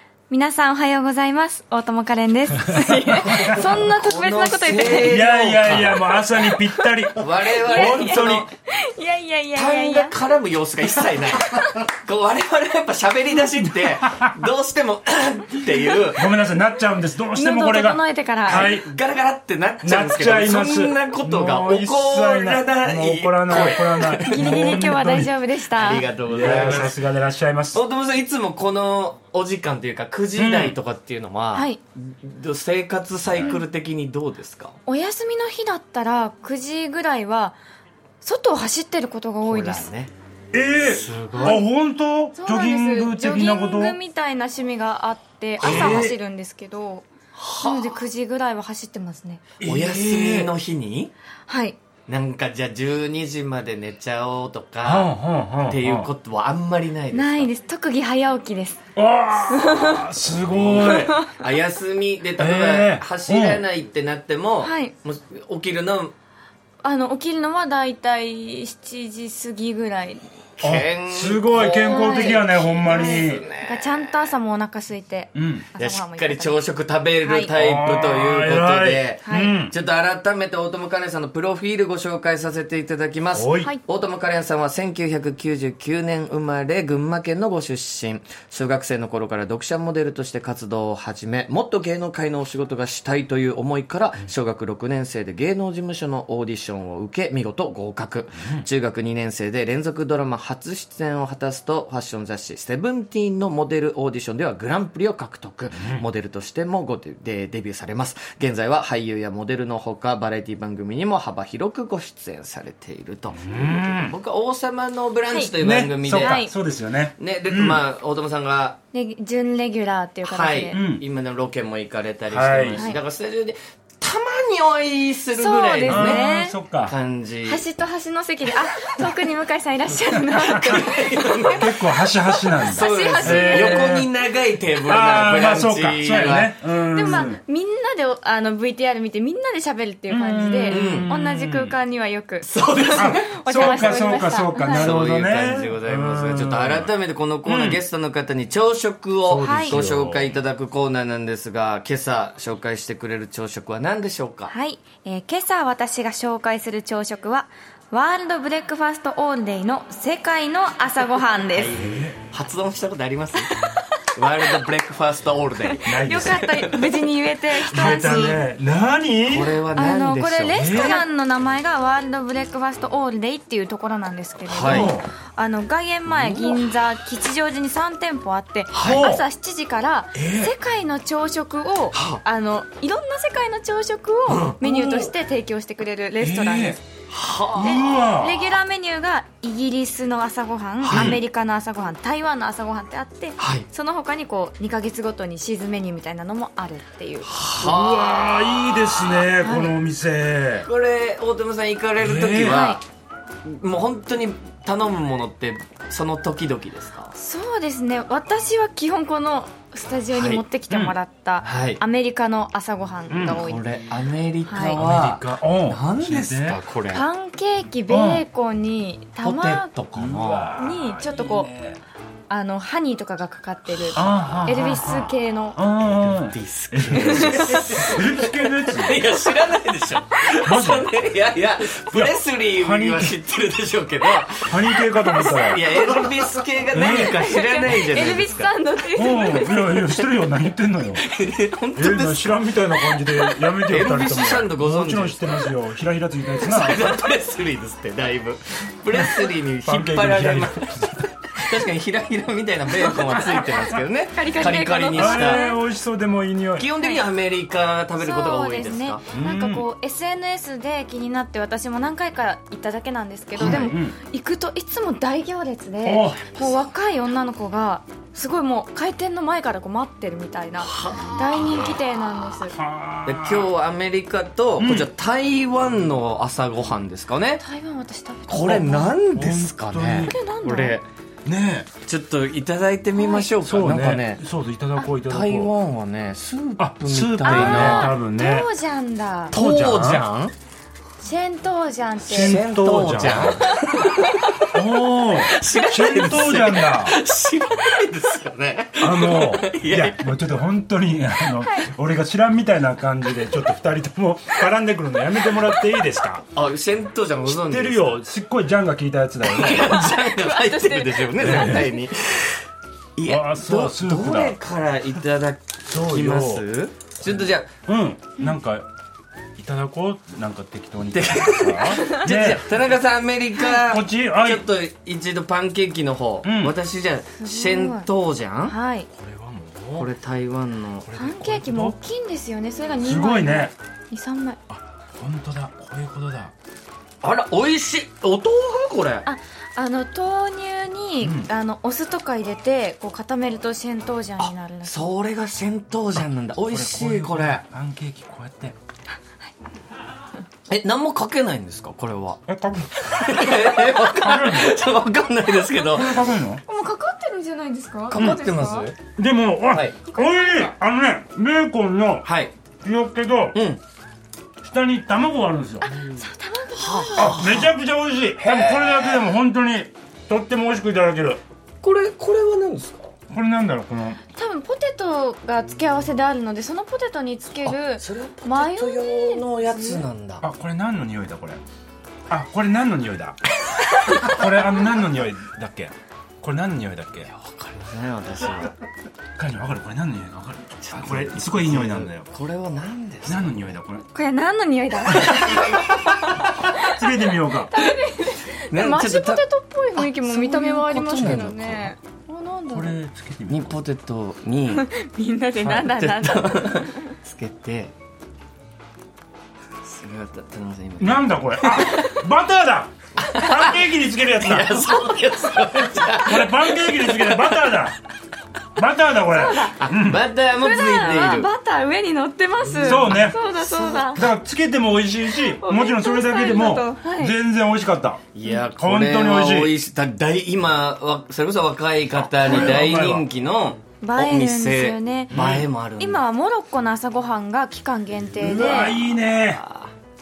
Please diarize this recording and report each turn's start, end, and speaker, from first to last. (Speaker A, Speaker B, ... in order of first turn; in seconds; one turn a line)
Speaker A: 0.3-5.3
Speaker B: 2.7-3.6
Speaker C: 3.2-6.1
Speaker B: 5.1-8.5
Speaker A: 6.6-10.2
Speaker C: 7.2-8.5
Speaker C: 9.6-16.3
Speaker B: 16.1-18.9
Speaker A: 17.3-18.7
Speaker C: 18.5-24.5
Speaker B: 19.8-25.3
Speaker A: 23.6-26.1
Speaker C: 25.8-27.0
Speaker B: 26.3-27.8
Speaker C: 27.7-34.8
Speaker B: 30.4-30.8
Speaker A: 31.5-31.8
Speaker A: 34.9-37.6
Speaker A: 38.2-39.9
Speaker C: 39.4-40.1
Speaker B: 40.5-44.0
Speaker C: 40.9-41.6
Speaker A: 41.3-41.6
Speaker A: 42.4-47.1
Speaker B: 45.6-46.2
Speaker C: 45.6-46.1
Speaker C: 47.4-48.0
Speaker A: 47.6-49.4
Speaker B: 49.6-50.5
Speaker C: 49.6-51.1
Speaker A: 51.5-51.8
Speaker C: 52.1-55.1
Speaker B: 54.8-56.1
Speaker C: 55.7-57.5
Speaker A: 57.1-58.8
Speaker B: 59.0-61.1
Speaker A: 59.5-60.0
Speaker C: 60.4-66.1
Speaker A: 60.9-61.4
Speaker B: 62.4-63.6
Speaker A: 64.6-64.9
Speaker A: 66.8-70.2
Speaker C: 70.6-74.3
Speaker B: 70.6-73.5
Speaker A: 71.8-76.6
Speaker B: 75.3-75.7
Speaker C: 75.8-116.5
Speaker A: 77.2-77.5
Speaker B: 77.5-79.7
Speaker A: 79.2-79.5
Speaker B: 83.3-83.7
Speaker B: 105.8-106.0
Speaker B: 113.4-114.2
Speaker B: 115.6-117.8
Speaker A: 116.2-116.5
Speaker C: 117.2-118.8
Speaker A: 118.9-120.8
Speaker C: 120.2-126.2
Speaker B: 120.7-121.0
Speaker B: 122.3-122.8
Speaker A: 125.4-126.6
Speaker B: 125.9-126.9
Speaker C: 126.8-127.6
Speaker A: 127.5-131.7
Speaker B: 130.3-130.8
Speaker C: 130.6-131.8
Speaker B: 131.5-134.1
Speaker A: 132.6-134.0
Speaker C: 132.6-136.6
Speaker B: 134.8-137.4
Speaker A: 136.9-144.9
Speaker B: 140.1-141.8
Speaker C: 140.7-141.1
Speaker C: 142.4-143.8
Speaker B: 142.9-146.9
Speaker C: 144.7-154.5
Speaker B: 147.5-147.8
Speaker B: 149.2-150.3
Speaker A: 149.4-149.8
Speaker A: 154.5-161.8
Speaker C: 161.6-163.6
Speaker B: 161.7-162.2
Speaker C: 164.2-167.0
Speaker A: 165.7-168.4
Speaker B: 165.8-166.6
Speaker C: 167.7-168.4
Speaker B: 167.7-169.6
Speaker C: 169.3-171.1
Speaker A: 169.8-186.8
Speaker B: 170.6-171.0
Speaker C: 174.5-174.9
Speaker B: 174.7-175.1
Speaker C: 176.1-176.6
Speaker C: 178.7-179.1
Speaker B: 178.8-179.2
Speaker B: 180.2-180.5
Speaker C: 181.9-182.2
Speaker C: 184.3-184.6
Speaker B: 184.6-185.1
Speaker B: 186.2-186.8
Speaker C: 187.1-187.9
Speaker B: 187.6-188.5
Speaker A: 187.6-197.3
Speaker C: 190.8-191.2
Speaker B: 190.9-191.2
Speaker C: 193.4-193.7
Speaker C: 197.2-199.3
Speaker B: 197.6-200.7
Speaker A: 199.4-199.7
Speaker C: 200.7-202.8
Speaker B: 202.0-202.6
Speaker A: 202.5-202.8
Speaker C: 203.4-207.1
Speaker A: 207.2-213.7
Speaker C: 210.1-210.4
Speaker B: 210.7-210.9
Speaker C: 211.4-211.8
Speaker B: 213.1-213.4
Speaker C: 213.3-217.0
Speaker A: 214.5-214.8
Speaker B: 214.8-216.6
Speaker A: 216.9-219.7
Speaker B: 217.9-218.2
Speaker C: 219.2-220.5
Speaker B: 220.0-221.8
Speaker A: 220.6-221.5
Speaker A: 222.3-225.6
Speaker B: 223.9-229.1
Speaker C: 225.8-238.5
Speaker A: 226.9-227.9
Speaker B: 230.4-230.9
Speaker B: 231.9-233.2
Speaker B: 234.4-236.2
Speaker B: 236.7-237.2
Speaker A: 236.8-239.8
Speaker B: 238.9-241.1
Speaker C: 241.0-245.5
Speaker B: 241.8-246.9
Speaker C: 246.4-255.4
Speaker B: 249.7-251.1
Speaker A: 254.1-255.6
Speaker B: 254.9-256.7
Speaker C: 256.6-259.0
Speaker A: 258.0-272.6
Speaker B: 259.1-259.7
Speaker B: 263.4-264.0
Speaker C: 263.4-263.7
Speaker B: 265.8-266.3
Speaker C: 266.3-266.7
Speaker C: 270.6-271.8
Speaker B: 272.5-273.5
Speaker C: 273.1-277.4
Speaker B: 274.6-274.9
Speaker A: 277.4-278.9
Speaker C: 278.3-280.9
Speaker B: 279.1-280.1
Speaker A: 280.0-280.8
Speaker B: 281.2-281.7
Speaker C: 281.9-284.2
Speaker A: 282.9-283.3
Speaker B: 283.4-285.5
Speaker C: 285.1-287.9
Speaker B: 286.6-288.5
Speaker A: 287.2-289.4
Speaker C: 289.3-290.3
Speaker B: 289.3-290.0
Speaker A: 291.0-292.4
Speaker B: 292.1-293.5
Speaker C: 292.1-294.5
Speaker A: 293.5-294.1
Speaker B: 294.5-297.0
Speaker C: 295.1-300.1
Speaker B: 298.8-306.2
Speaker A: 301.4-301.7
Speaker C: 306.3-308.0
Speaker B: 307.2-309.7
Speaker C: 309.2-312.4
Speaker A: 309.6-311.6
Speaker B: 311.2-311.7
Speaker C: 313.0-317.5
Speaker B: 313.1-314.4
Speaker B: 315.7-316.4
Speaker B: 317.1-318.7
Speaker B: 319.4-322.5
Speaker C: 320.9-328.6
Speaker B: 323.5-324.4
Speaker B: 326.2-326.6
Speaker A: 327.2-327.9
Speaker A: 328.5-328.9
Speaker B: 328.9-329.9
Speaker C: 329.8-330.9
Speaker B: 330.8-331.8
Speaker A: 331.0-334.4
Speaker B: 332.8-333.5
Speaker B: 334.5-336.3
Speaker C: 337.0-339.1
Speaker A: 339.1-344.9
Speaker B: 341.0-341.3
Speaker C: 344.6-347.4
Speaker B: 346.5-348.6
Speaker C: 350.5-352.2
Speaker B: 352.3-354.6
Speaker C: 352.8-356.1
Speaker B: 355.7-356.4
Speaker A: 356.5-358.7
Speaker C: 357.9-358.8
Speaker B: 359.0-362.1
Speaker C: 359.5-359.8
Speaker A: 359.9-360.5
Speaker C: 362.1-362.3
Speaker B: 362.6-363.4
Speaker C: 363.3-363.6
Speaker B: 364.4-365.7
Speaker A: 365.6-367.2
Speaker C: 366.6-367.5
Speaker B: 367.0-371.2
Speaker C: 368.2-369.1
Speaker C: 371.6-372.9
Speaker B: 373.1-374.0
Speaker A: 374.1-379.8
Speaker C: 377.4-380.2
Speaker B: 380.2-381.4
Speaker B: 382.1-383.2
Speaker B: 383.9-387.1
Speaker C: 387.1-388.5
Speaker B: 389.2-392.1
Speaker C: 390.6-393.5
Speaker B: 393.1-393.9
Speaker A: 393.9-402.7
Speaker B: 394.9-395.2
Speaker B: 396.5-397.5
Speaker C: 398.5-399.2
Speaker C: 399.8-401.7
Speaker B: 401.0-401.4
Speaker B: 402.5-403.6
Speaker C: 403.3-404.7
Speaker A: 404.6-406.9
Speaker C: 405.4-407.7
Speaker C: 409.6-412.0
Speaker B: 410.8-414.8
Speaker C: 413.0-413.7
Speaker C: 414.2-417.6
Speaker B: 415.7-417.8
Speaker B: 418.6-420.0
Speaker A: 419.1-419.6
Speaker C: 419.6-421.3
Speaker A: 420.4-424.0
Speaker C: 422.6-424.0
Speaker B: 422.6-423.2
Speaker B: 423.9-428.0
Speaker A: 425.2-427.1
Speaker C: 428.1-436.0
Speaker B: 428.6-429.5
Speaker B: 432.2-433.1
Speaker A: 433.8-435.2
Speaker B: 435.1-435.5
Speaker A: 435.8-438.8
Speaker B: 438.2-439.4
Speaker C: 438.4-439.7